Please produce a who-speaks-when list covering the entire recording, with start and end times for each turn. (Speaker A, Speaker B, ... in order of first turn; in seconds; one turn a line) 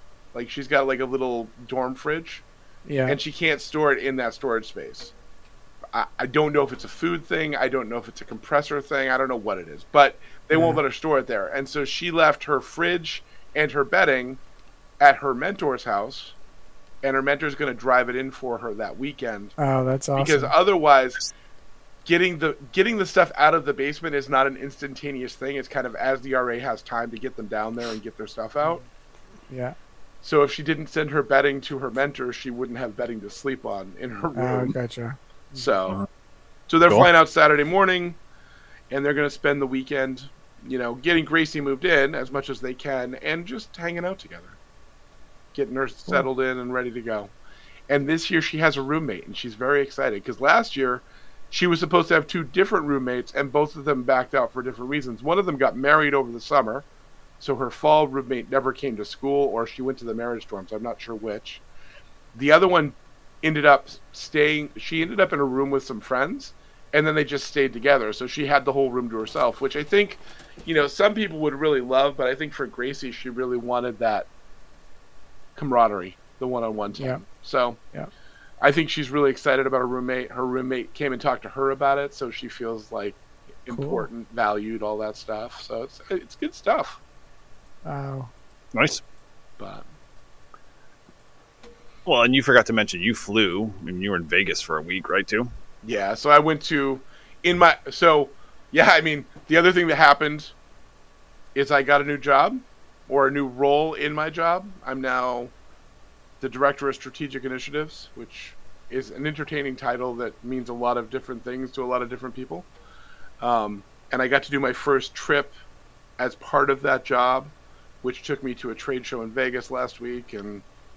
Speaker A: 0.3-2.5
Speaker B: 2.9-3.2
Speaker A: 3.1-5.1
Speaker A: 5.9-14.4
Speaker B: 10.5-10.8
Speaker A: 15.0-16.4
Speaker A: 17.0-19.6
Speaker B: 19.6-20.5
Speaker A: 20.2-21.3
Speaker A: 22.1-28.8
Speaker B: 29.5-29.8
Speaker A: 30.2-34.8
Speaker B: 34.4-35.2
Speaker A: 35.5-36.0
Speaker A: 36.7-38.2
Speaker A: 38.9-44.6
Speaker A: 45.5-47.3
Speaker A: 47.9-56.9
Speaker A: 57.4-61.6
Speaker A: 62.3-74.3
Speaker A: 75.6-77.8
Speaker B: 77.0-77.2
Speaker A: 78.6-87.0
Speaker B: 83.7-84.1
Speaker B: 87.8-88.3
Speaker C: 88.7-89.0
Speaker A: 89.6-89.8
Speaker C: 92.0-95.5
Speaker A: 95.8-100.5
Speaker A: 101.5-105.5
Speaker A: 106.4-112.7
Speaker A: 113.4-115.5
Speaker A: 116.2-120.6